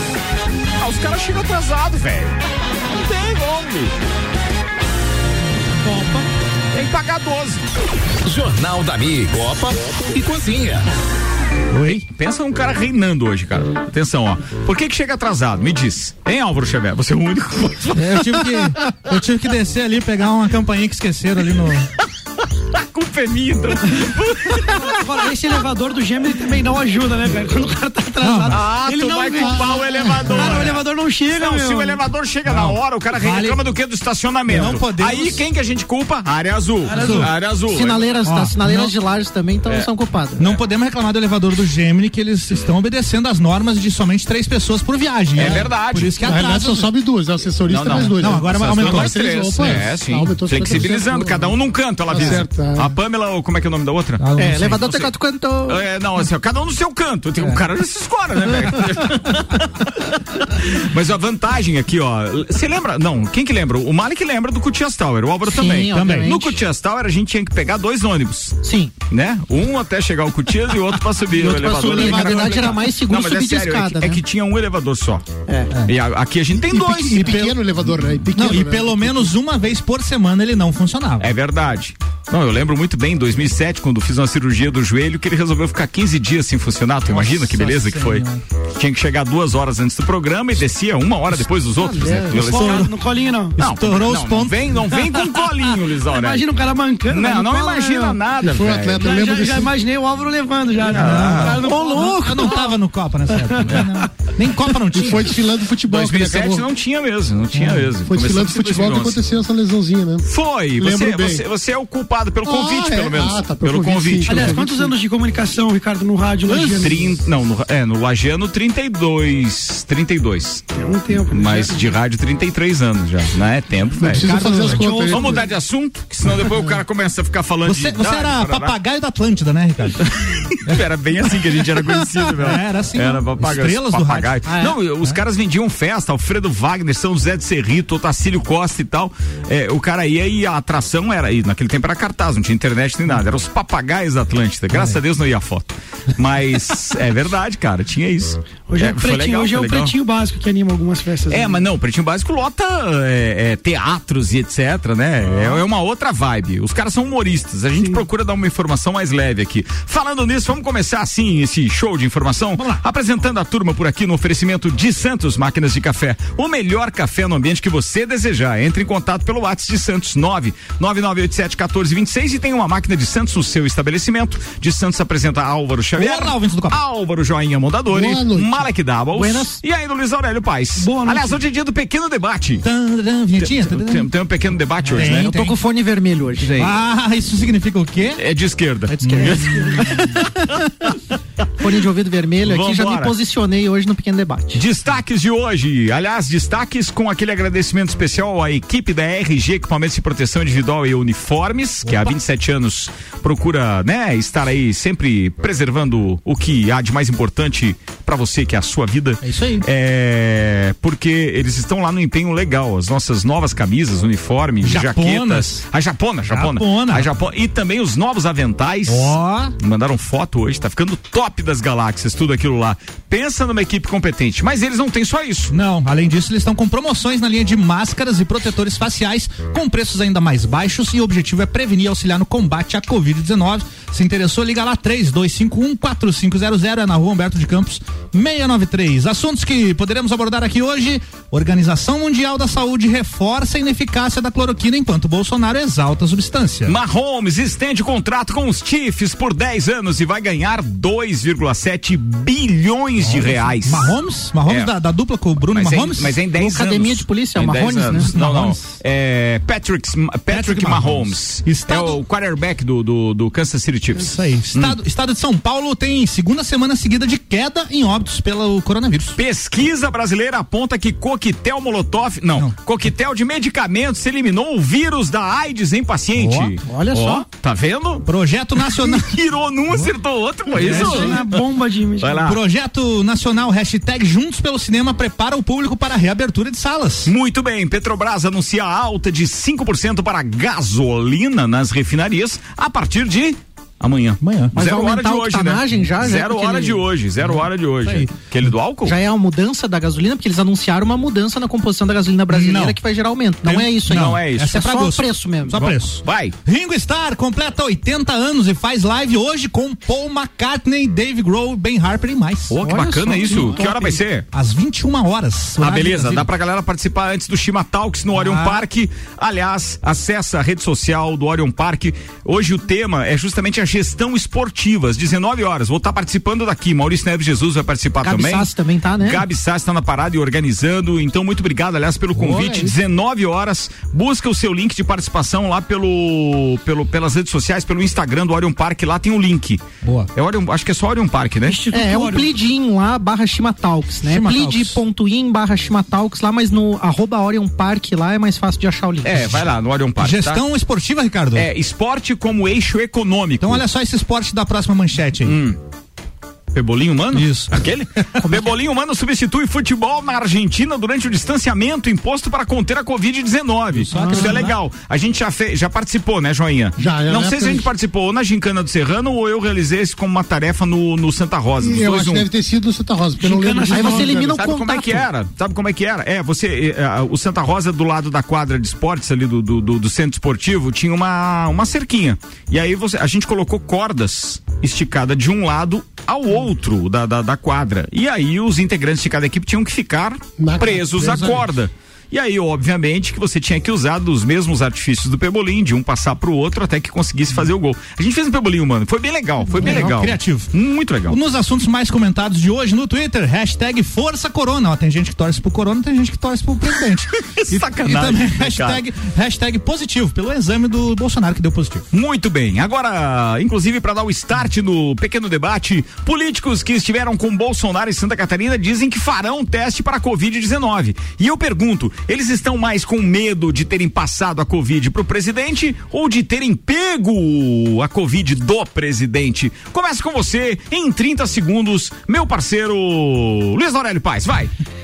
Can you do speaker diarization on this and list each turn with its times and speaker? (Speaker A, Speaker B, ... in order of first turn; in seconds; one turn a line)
Speaker A: 0.8-2.4
Speaker A: 3.0-3.9
Speaker A: 6.7-7.6
Speaker B: 8.2-10.9
Speaker C: 11.7-12.0
Speaker A: 11.8-18.2
Speaker C: 17.9-21.9
Speaker A: 22.7-25.0
Speaker D: 24.6-32.0
Speaker C: 28.2-28.6
Speaker A: 28.5-38.1
Speaker E: 29.7-30.6
Speaker C: 30.4-30.6
Speaker C: 32.5-33.6
Speaker C: 34.5-35.4
Speaker D: 36.9-37.3
Speaker C: 37.0-37.3
Speaker F: 37.7-40.4
Speaker C: 38.2-38.9
Speaker C: 40.4-46.9
Speaker A: 45.4-46.2
Speaker E: 46.2-51.6
Speaker A: 47.7-54.2
Speaker C: 47.9-49.9
Speaker E: 52.1-53.0
Speaker C: 52.1-52.4
Speaker C: 54.2-54.8
Speaker F: 54.4-55.8
Speaker A: 54.8-55.1
Speaker A: 55.7-68.6
Speaker F: 65.5-66.6
Speaker C: 65.9-66.3
Speaker F: 68.6-68.9
Speaker A: 69.1-75.2
Speaker F: 71.4-74.2
Speaker C: 71.5-72.8
Speaker F: 75.5-75.7
Speaker A: 75.9-77.6
Speaker E: 76.5-79.3
Speaker C: 78.3-81.3
Speaker A: 81.2-88.2
Speaker C: 87.1-88.4
Speaker A: 88.8-92.9
Speaker C: 92.0-92.9
Speaker D: 92.2-93.5
Speaker C: 93.6-94.8
Speaker A: 93.6-96.4
Speaker D: 96.1-98.2
Speaker A: 97.1-99.1
Speaker E: 98.4-99.8
Speaker D: 99.0-102.7
Speaker A: 100.8-101.6
Speaker C: 100.9-105.3
Speaker F: 101.5-102.6
Speaker D: 103.3-104.0
Speaker E: 104.9-106.7
Speaker A: 105.9-109.2
Speaker C: 107.5-107.9
Speaker E: 108.1-110.3
Speaker A: 110.3-114.6
Speaker E: 110.8-111.4
Speaker E: 112.5-115.0
Speaker D: 114.3-117.1
Speaker A: 116.7-120.7
Speaker D: 120.8-121.9
Speaker A: 121.3-128.8
Speaker E: 124.0-125.5
Speaker C: 124.0-124.8
Speaker D: 124.6-125.4
Speaker C: 127.7-130.1
Speaker A: 130.0-149.9
Speaker C: 131.9-135.2
Speaker F: 134.5-134.7
Speaker C: 144.7-145.0
Speaker D: 148.7-151.6
Speaker A: 151.3-182.7
Speaker C: 162.6-162.8
Speaker C: 176.0-176.8
Speaker E: 177.9-178.7
Speaker F: 179.1-179.6
Speaker D: 180.8-181.4
Speaker C: 182.6-184.1
Speaker A: 183.4-185.3
Speaker C: 184.9-185.6
Speaker F: 185.0-186.5
Speaker A: 186.4-186.8
Speaker C: 186.5-188.2
Speaker A: 188.2-190.2
Speaker C: 188.9-190.2
Speaker F: 189.0-189.4
Speaker F: 191.6-194.6
Speaker A: 192.4-193.1
Speaker A: 194.5-225.5
Speaker C: 201.8-202.2
Speaker C: 209.2-209.7
Speaker C: 214.6-215.6
Speaker C: 216.3-217.1
Speaker C: 218.9-219.6
Speaker C: 225.5-246.8
Speaker A: 246.7-253.9
Speaker C: 253.0-256.1
Speaker A: 254.4-254.7
Speaker A: 255.5-264.8
Speaker F: 256.4-258.2
Speaker C: 257.9-258.8
Speaker C: 260.3-262.0
Speaker C: 264.0-269.2
Speaker A: 269.2-278.1
Speaker C: 276.2-276.6
Speaker F: 276.7-277.2
Speaker C: 278.1-279.2
Speaker A: 278.6-281.3
Speaker C: 280.5-281.3
Speaker D: 280.6-282.3
Speaker A: 282.0-282.4
Speaker C: 282.2-287.1
Speaker A: 287.1-298.9
Speaker C: 294.2-294.6
Speaker F: 294.6-296.8
Speaker C: 297.2-298.5
Speaker F: 298.9-305.7
Speaker C: 302.3-302.8
Speaker C: 303.4-312.6
Speaker A: 303.9-304.6
Speaker A: 305.6-306.4
Speaker A: 312.5-314.3
Speaker F: 312.6-314.0
Speaker C: 313.2-313.6
Speaker C: 314.3-316.3
Speaker A: 315.6-339.6
Speaker C: 318.1-318.6
Speaker F: 328.0-329.2
Speaker C: 332.1-332.7
Speaker C: 339.8-340.1
Speaker A: 340.1-341.6
Speaker D: 341.5-342.3
Speaker F: 341.7-349.4
Speaker C: 344.0-344.8
Speaker A: 349.0-350.4
Speaker C: 350.0-351.5
Speaker A: 351.4-353.6
Speaker C: 353.4-355.4
Speaker A: 355.2-355.6
Speaker A: 356.5-372.3
Speaker C: 357.1-357.6
Speaker F: 358.2-358.5
Speaker C: 363.7-364.6
Speaker F: 363.9-364.5
Speaker E: 366.8-367.7
Speaker E: 371.6-374.4
Speaker D: 373.2-374.2
Speaker F: 373.7-375.1
Speaker A: 374.3-401.2
Speaker E: 390.4-391.4
Speaker C: 399.6-400.5
Speaker C: 401.1-411.9
Speaker A: 407.4-408.8
Speaker A: 411.9-434.5